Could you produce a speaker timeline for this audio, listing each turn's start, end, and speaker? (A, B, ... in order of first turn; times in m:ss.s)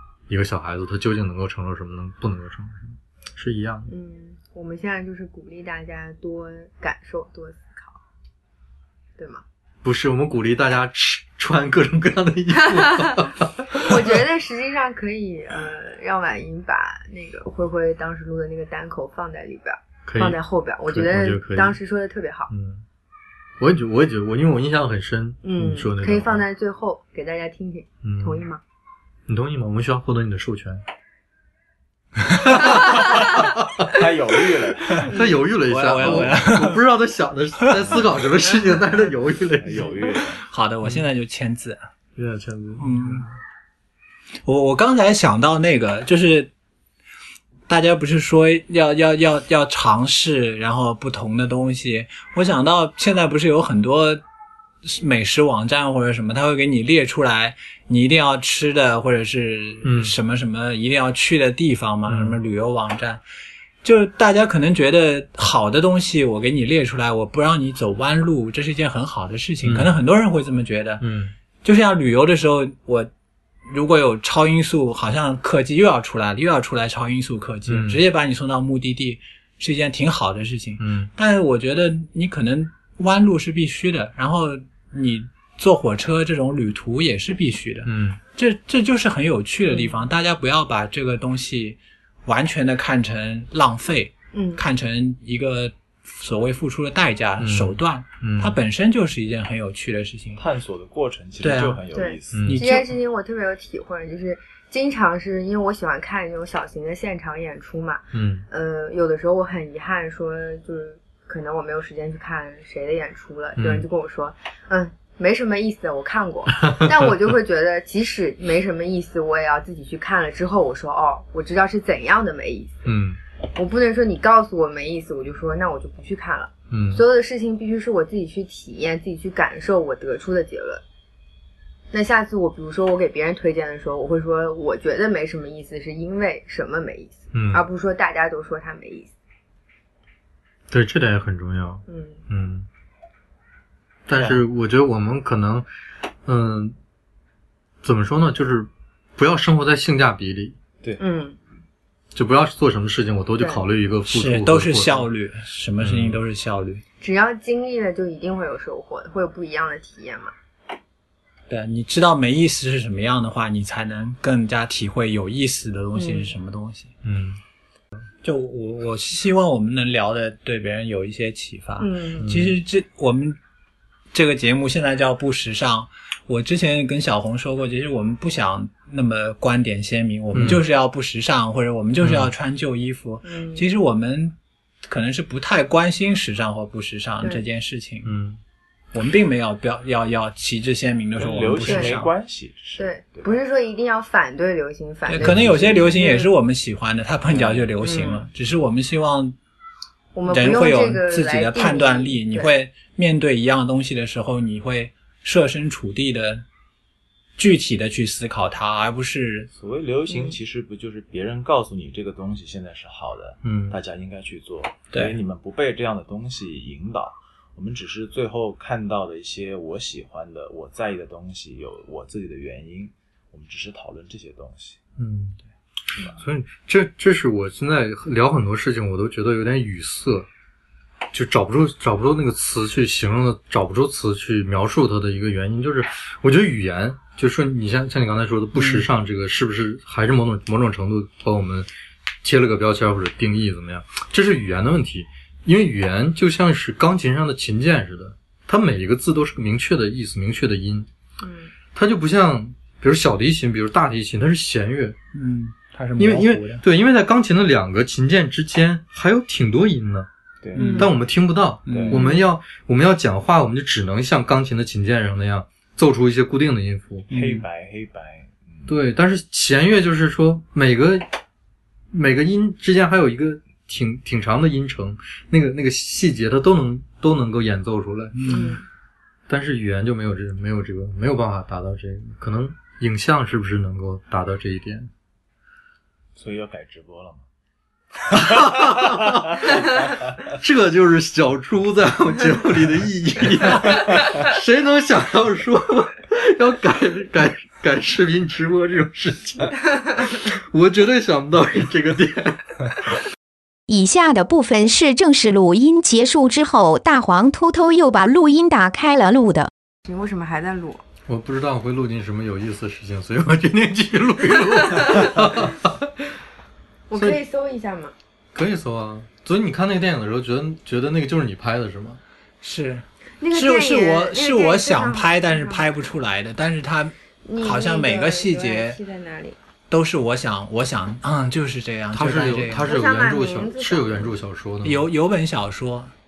0:00.3-0:03.9 A
0:03.9-0:08.0 B
0:09.2-0:09.4 B
0:09.8-0:14.0 A
0:13.8-0:22.5 B
0:20.1-0:21.8 A
0:22.5-0:22.8 A
0:23.6-0:26.4 A
0:25.4-0:28.6 B
0:28.0-0:28.4 A
0:29.3-0:30.8 A
0:32.3-0:33.9 A
0:33.1-0:35.1 C
0:35.0-0:35.4 B
0:35.0-0:40.0 A
0:35.7-0:36.8 D
0:36.0-0:36.3 C
0:39.6-0:40.4 C
0:40.4-0:41.8 D
0:42.2-0:43.4 A
0:42.8-0:43.2 D
0:44.4-0:46.5 D
0:47.7-0:54.2 D
0:54.8-1:03.2 D
0:59.8-1:00.1 A
1:02.1-1:02.4 A
1:03.8-1:11.0 D
1:09.6-1:09.9 A
1:11.0-1:11.3 A
1:11.6-1:13.1 D
1:13.7-1:40.4 D
1:17.7-1:18.0 A
1:20.8-1:21.1 A
1:27.8-1:28.2 A
1:29.7-1:30.0 B
1:34.3-1:34.6 B
1:37.4-1:38.6 A
1:40.4-1:42.6 C
1:41.4-1:41.8 D
1:41.9-2:02.9 B
1:42.3-1:42.7 A
1:42.5-1:42.9 D
1:48.1-1:48.5 A
1:53.6-1:53.9 A
2:02.9-2:03.2 A
2:03.6-2:10.8 B
2:06.7-2:07.0 A
2:11.9-2:19.1 B
2:17.3-2:17.6 A
2:20.7-2:22.7 A
2:21.9-2:22.2 B
2:24.1-2:25.7 A
2:24.1-2:24.4 C
2:26.3-2:26.8 A
2:27.8-2:30.6 A
2:31.0-2:31.4 B
2:32.1-2:35.1 A
2:34.1-2:36.8 D
2:35.8-2:36.2 A
2:37.0-2:40.3 B
2:41.5-2:46.9 D
2:46.0-2:46.3 B
2:47.0-2:47.4 A
2:48.2-2:53.4 D
2:51.8-2:52.3 B
2:52.2-2:52.6 A
2:54.1-3:04.4 D
3:00.3-3:00.6 A
3:02.0-3:02.3 A
3:03.2-3:03.6 B
3:04.9-3:08.1 D
3:08.0-3:08.4 A
3:08.9-3:12.1 D
3:11.2-3:13.3 C
3:11.6-3:12.0 B
3:12.8-3:16.3 B
3:15.1-3:19.4 D
3:15.2-3:15.6 A
3:17.3-3:17.7 C
3:17.8-3:18.3 B
3:20.1-3:22.5 B
3:20.3-3:26.4 D
3:27.4-3:29.5 D
3:29.5-3:44.8 C
3:30.1-3:30.4 B
3:33.4-3:33.8 A
3:34.9-3:35.2 D
3:45.0-3:45.4 A
3:45.9-3:50.3 A
3:46.0-3:46.2 C
3:51.1-4:01.7 A
3:58.6-3:58.9 D
4:02.2-4:10.9 A
4:11.2-4:11.5 B
4:11.7-4:15.0 A
4:15.1-4:16.6 D
4:16.0-4:20.1 A
4:20.4-4:20.9 C
4:20.6-4:20.9 D
4:20.6-4:20.9 B
4:20.7-4:27.1 A
4:21.7-4:22.0 D
4:21.7-4:22.0 C
4:21.9-4:22.3 B
4:27.1-4:27.5 D
4:27.1-4:28.8 C
4:28.7-4:31.0 A
4:31.9-4:38.2 A
4:38.2-4:38.6 D
4:38.3-4:38.6 B
4:39.3-4:44.9 A
4:46.2-4:47.2 C
4:48.1-4:49.7 A
4:48.2-4:49.8 C
4:50.3-5:02.6 A
5:03.7-5:09.5 E
5:09.9-5:10.8 B
5:11.1-5:15.9 A
5:16.9-5:17.9 B
5:17.0-5:17.2 A
5:18.3-5:22.0 A
5:22.4-5:28.8 D
5:23.2-5:25.8 B
5:27.2-5:29.4 B
5:29.7-5:32.7 D
5:31.9-5:34.9 A
5:32.6-5:34.2 B
5:34.6-5:35.9 D